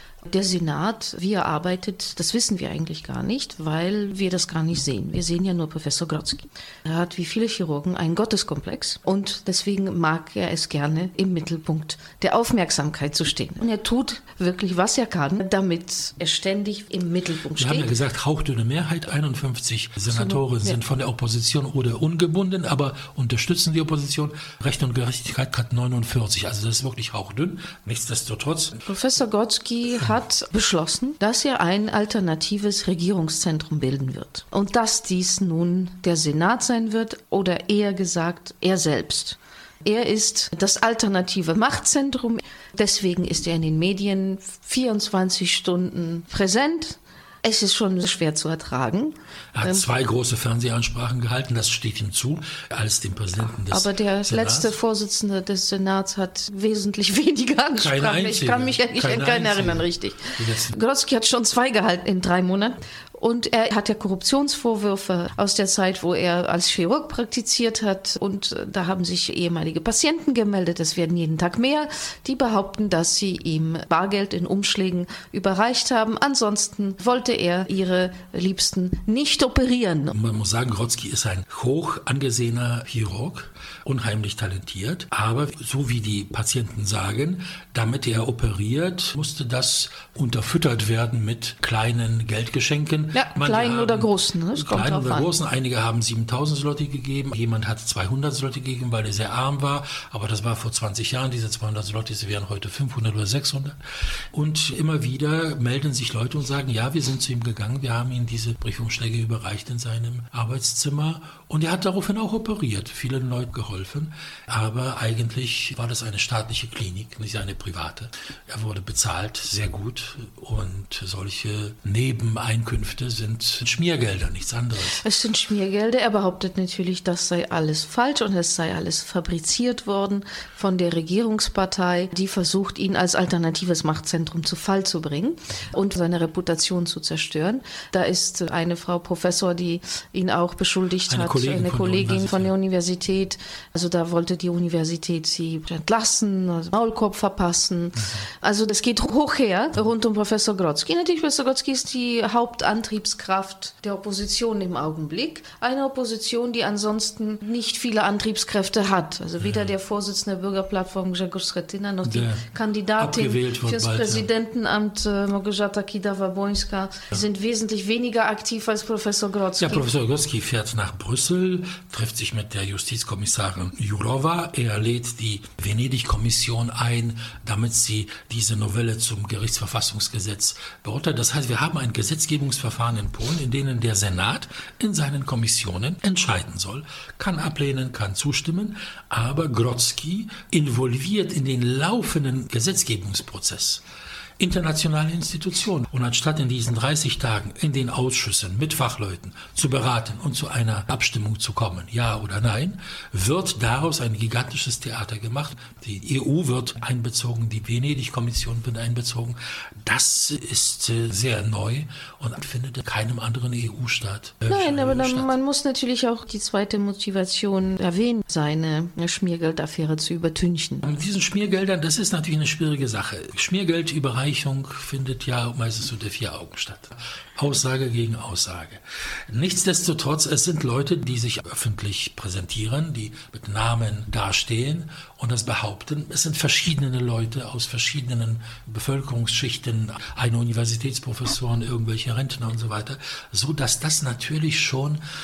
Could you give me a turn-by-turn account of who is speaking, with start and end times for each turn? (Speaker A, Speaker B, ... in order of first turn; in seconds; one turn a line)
Speaker A: 0.2-17.9
Speaker B: 17.6-28.8
Speaker A: 20.1-20.8
Speaker A: 28.8-49.8
Speaker B: 49.5-54.7
Speaker A: 53.7-80.2
Speaker B: 57.8-60.8
Speaker B: 80.1-125.0
Speaker A: 93.1-95.3
Speaker A: 125.0-169.9
Speaker B: 141.1-142.5
Speaker B: 162.0-162.4
Speaker B: 163.0-164.3
Speaker B: 169.6-193.8
Speaker B: 194.4-215.3
Speaker A: 214.5-220.9
Speaker B: 220.8-245.0